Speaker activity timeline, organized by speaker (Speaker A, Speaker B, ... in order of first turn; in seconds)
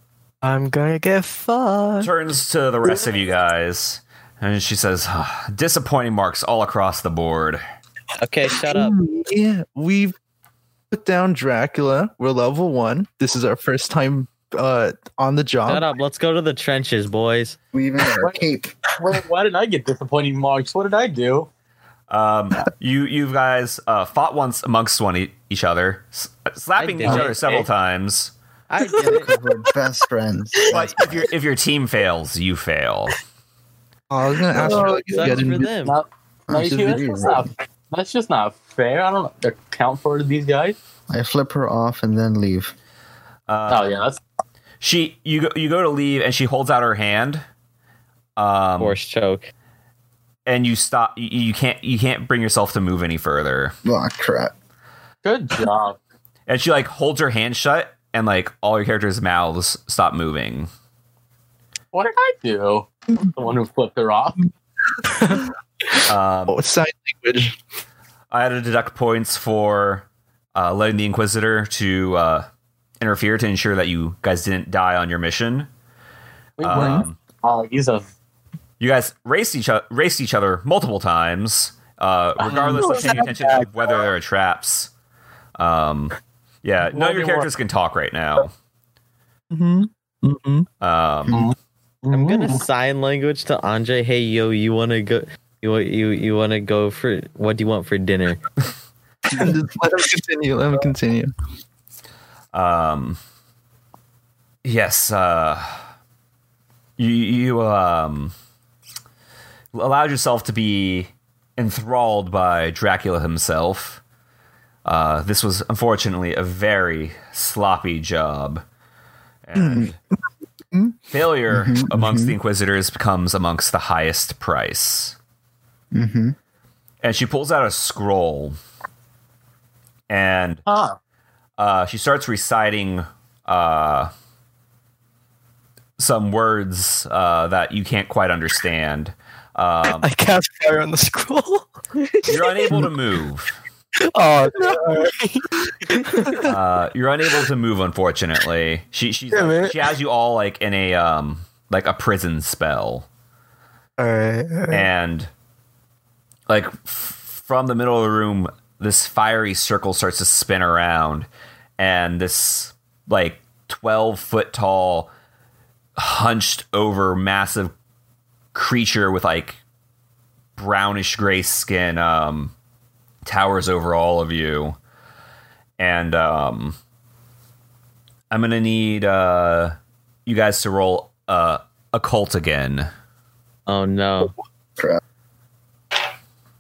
Speaker A: 0.4-2.1, 28.8-29.2, 34.6-35.0, 65.1-65.4, 82.5-84.1, 139.8-142.9, 144.0-146.5, 149.3-149.8, 154.0-154.9
Speaker B: 2.0-7.6, 22.1-28.3, 30.7-33.2, 43.5-43.9, 44.8-47.4, 48.4-49.0, 50.5-53.8, 56.5-60.7, 66.1-66.6, 68.3-72.5, 73.0-75.7, 76.6-77.2, 78.8-84.9, 85.6-88.5, 90.8-91.5, 102.5-103.2, 104.6-105.8, 107.0-108.3, 109.7-114.0, 114.8-118.6, 119.4-120.0, 121.1-125.2, 127.0-128.6, 130.1-130.6, 131.6-134.1, 136.0-140.1, 142.3-143.5, 146.4-153.1, 154.7-155.3, 156.5-165.1, 166.0-167.7, 168.5-169.6, 170.6-172.5, 173.2-174.8, 175.8-176.8, 178.3-182.9
Speaker C: 8.2-9.0, 15.7-17.6, 26.8-27.6, 28.7-29.3, 34.5-36.0, 48.8-49.5, 92.1-98.4, 183.7-184.3
Speaker D: 8.7-10.2, 10.9-15.9, 34.1-35.7, 66.5-67.6, 76.7-77.0, 82.5-82.8, 89.5-90.7, 99.3-101.3, 119.5-119.9, 120.7-121.0, 144.6-144.9, 146.1-146.5
Speaker E: 17.7-18.8, 29.0-31.3, 36.5-37.5, 41.1-42.7, 53.9-54.5, 121.5-122.3, 125.9-126.3
Speaker F: 19.0-21.5, 27.0-27.7, 35.1-40.8, 43.7-44.2, 55.2-56.0, 61.9-64.5, 76.6-78.1, 86.9-87.5, 91.3-92.6, 130.7-130.9